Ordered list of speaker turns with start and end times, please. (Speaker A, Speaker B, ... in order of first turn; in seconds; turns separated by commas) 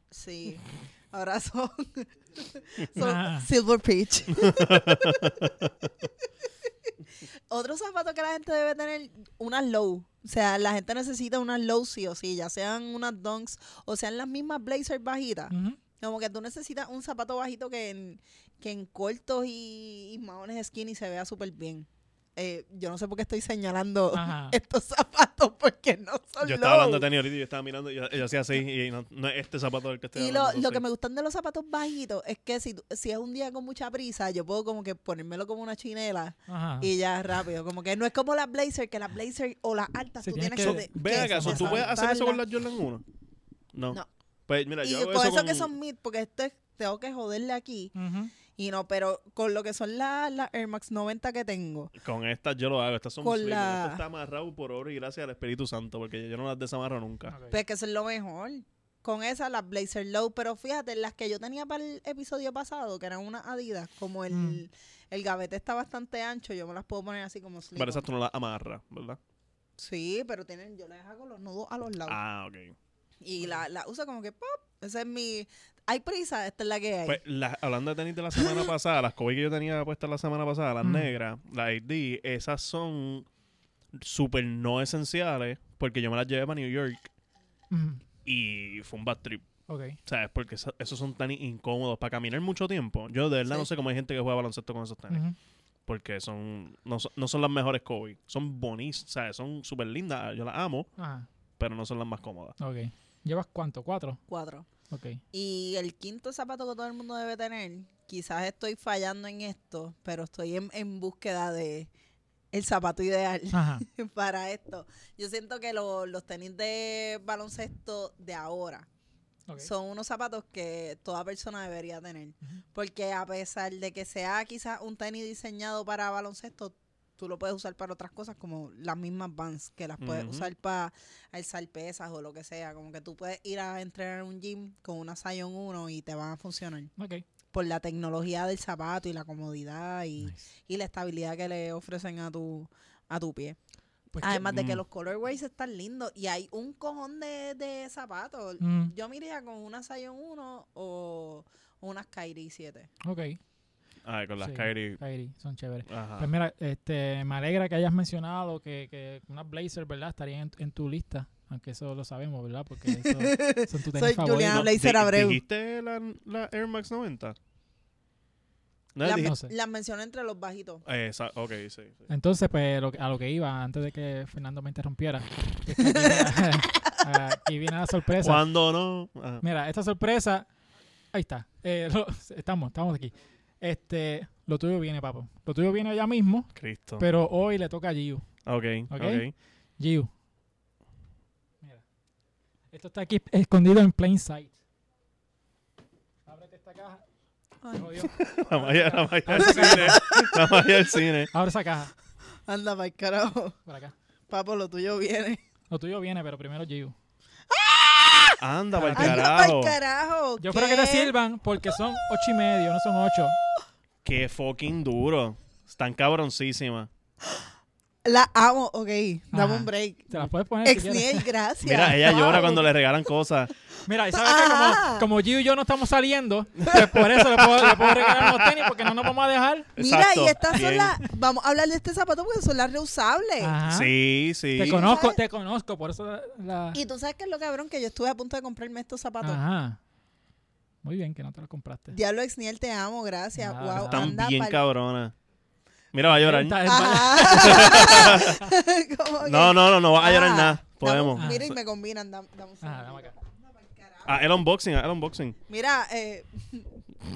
Speaker A: 0.1-5.5, Speaker B: 3.0-3.5, Speaker C: 4.3-5.9, Speaker A: 7.5-27.0, Speaker B: 15.5-15.8, Speaker B: 24.1-24.6, Speaker C: 26.4-30.8, Speaker A: 30.1-42.4, Speaker B: 36.5-36.9, Speaker B: 40.2-41.9, Speaker C: 40.6-43.0, Speaker C: 43.7-45.7, Speaker A: 44.8-47.9, Speaker B: 47.9-48.3, Speaker A: 48.5-51.9, Speaker C: 52.0-57.3, Speaker A: 53.2-54.0, Speaker B: 57.3-57.6, Speaker A: 57.5-68.0, Speaker B: 64.3-64.6, Speaker C: 67.7-69.2, Speaker A: 69.8-72.2, Speaker C: 72.0-72.8, Speaker A: 73.2-77.2, Speaker C: 77.0-83.3, Speaker A: 78.3-78.7, Speaker B: 80.8-81.1, Speaker C: 83.9-87.1, Speaker B: 87.7-88.0, Speaker C: 88.2-89.5, Speaker B: 89.7-90.0, Speaker C: 90.0-95.2, Speaker B: 95.1-95.3, Speaker C: 95.8-100.9, Speaker B: 101.0-101.3, Speaker C: 101.6-102.5, Speaker B: 102.6-104.2, Speaker A: 104.3-104.7, Speaker B: 104.9-105.2, Speaker A: 105.3-111.9, Speaker A: 112.5-118.9, Speaker B: 113.5-113.8, Speaker A: 119.6-136.9, Speaker C: 130.0-130.5, Speaker B: 137.0-137.2, Speaker A: 137.5-143.6, Speaker B: 144.1-144.5, Speaker A: 144.2-152.9, Speaker C: 144.5-144.8, Speaker B: 148.6-148.9, Speaker B: 153.0-153.4, Speaker C: 154.0-155.0, Speaker B: 154.4-164.7, Speaker C: 155.9-156.3, Speaker A: 162.9-165.4, Speaker C: 164.5-167.4, Speaker C: 168.9-169.3, Speaker A: 169.0-170.8, Speaker B: 169.1-169.5, Speaker C: 170.8-172.1, Speaker B: 172.1-178.4, Speaker A: 175.8-176.9, Speaker C: 178.2-179.4, Speaker B: 179.4-180.5, Speaker B: 181.1-188.3, Speaker C: 186.5-187.1, Speaker C: 188.4-189.3, Speaker B: 188.9-189.3, Speaker B: 189.8-190.1, Speaker B: 192.7-194.6, Speaker B: 196.2-197.0, Speaker A: 197.6-198.1, Speaker B: 197.7-200.0, Speaker C: 198.1-201.3, Speaker A: 199.3-200.8, Speaker B: 201.3-201.9, Speaker A: 202.4-203.6, Speaker B: 203.7-203.9, Speaker A: 204.3-205.4, Speaker B: 205.7-206.9, Speaker A: 207.5-208.4, Speaker C: 208.4-209.8, Speaker B: 208.7-209.2, Speaker A: 208.9-211.1, Speaker B: 210.4-213.3, Speaker C: 214.0-216.9, Speaker A: 218.0-222.7, Speaker B: 219.3-221.3, Speaker C: 221.6-223.5, Speaker B: 223.8-229.7, Speaker A: 224.1-225.1, Speaker C: 226.6-229.1, Speaker C: 229.8-231.0, Speaker A: 229.8-233.6, Speaker B: 233.4-233.9, Speaker C: 233.7-235.0, Speaker B: 234.6-236.8, Speaker A: 234.6-235.2, Speaker A: 236.7-239.4, Speaker B: 239.2-239.8, Speaker B: 240.8-242.0, Speaker A: 241.9-244.6, Speaker B: 243.4-244.2, Speaker C: 243.8-245.1, Speaker C: 245.9-248.4, Speaker B: 246.0-248.5, Speaker A: 246.6-254.2, Speaker C: 249.2-251.6, Speaker B: 251.2-251.5, Speaker B: 252.6-253.1, Speaker C: 254.0-255.4, Speaker A: 255.5-256.7